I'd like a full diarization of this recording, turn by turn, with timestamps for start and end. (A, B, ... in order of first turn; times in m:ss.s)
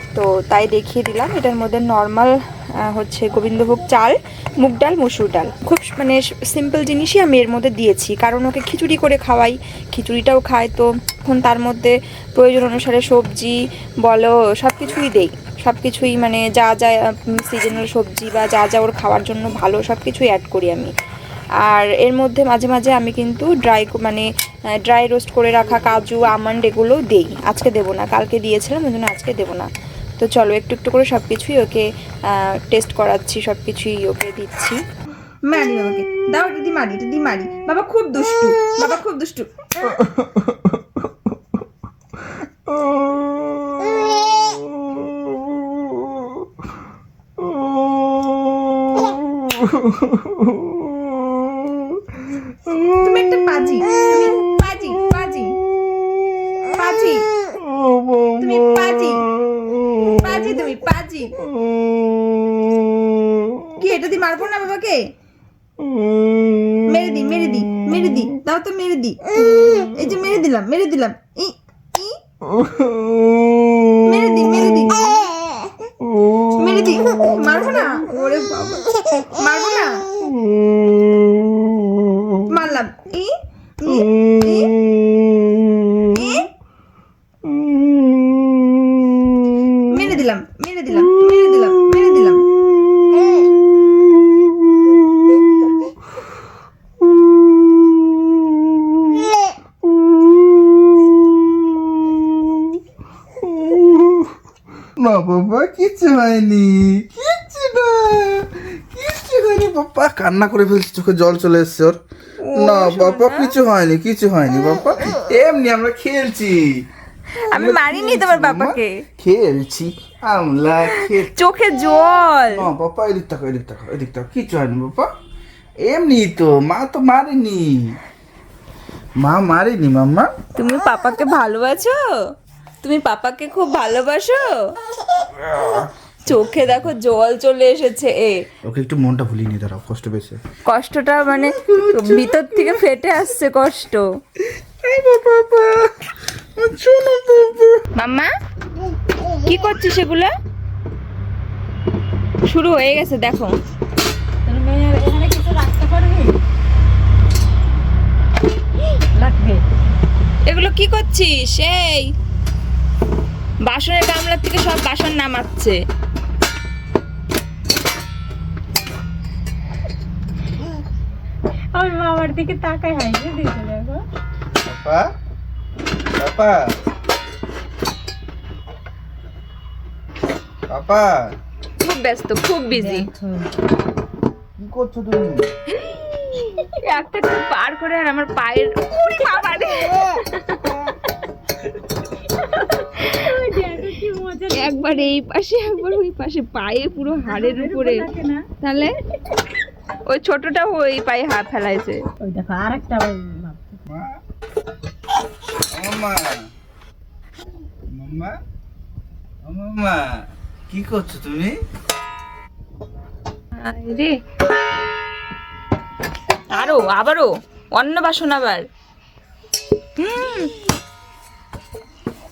0:00.2-0:20.9 A
0:21.6-0:24.3 A
0:24.8-0:34.8 A
0:35.5-0:40.1 A
0:49.8-0:50.2 B
0:53.0-0:55.6 A
0:56.7-0:57.3 A
0:58.4-0:59.3 A
0:59.9-1:01.4 A
1:03.8-1:05.0 A
1:06.8-1:12.2 A
1:14.0-1:15.1 A
1:16.4-1:20.1 A
1:22.5-1:24.7 A
1:26.1-1:26.5 A
1:29.8-1:32.5 A
1:40.9-1:42.7 B
1:43.4-1:44.3 B
1:45.0-1:52.0 B
1:52.4-1:53.5 A
1:52.6-1:56.9 B
1:57.4-1:59.0 A
1:57.5-2:01.3 B
2:00.9-2:02.7 A
2:02.5-2:05.1 B
2:05.8-2:08.0 B
2:09.2-2:10.3 B
2:10.6-2:12.0 A
2:12.8-2:14.6 A
2:15.5-2:16.9 B
2:16.2-2:18.4 A
2:18.6-2:20.4 B
2:20.7-2:24.1 A
2:21.4-2:22.9 B
2:24.5-2:27.8 B
2:28.0-2:28.3 A
2:29.4-2:30.3 A
2:32.5-2:33.5 A
2:34.5-2:36.4 C
2:39.1-2:39.6 C
2:40.5-2:42.1 A
2:43.6-2:45.8 A
2:51.8-2:54.0 C
2:54.6-2:55.1 B
2:56.2-2:56.6 B
3:00.7-3:01.2 B
3:01.8-3:03.1 A
3:02.7-3:03.5 C
3:04.6-3:05.5 B
3:05.8-3:10.9 A
3:12.7-3:13.3 A
3:13.1-3:15.1 C
3:14.5-3:18.1 A
3:17.2-3:18.4 C
3:18.6-3:18.9 A
3:20.1-3:22.0 A
3:22.2-3:23.8 C
3:23.9-3:24.2 B
3:25.7-3:26.4 B
3:27.9-3:28.4 B
3:29.4-3:30.0 B
3:30.7-3:31.6 B
3:33.6-3:34.2 A
3:36.5-3:38.7 A
3:40.0-3:40.5 A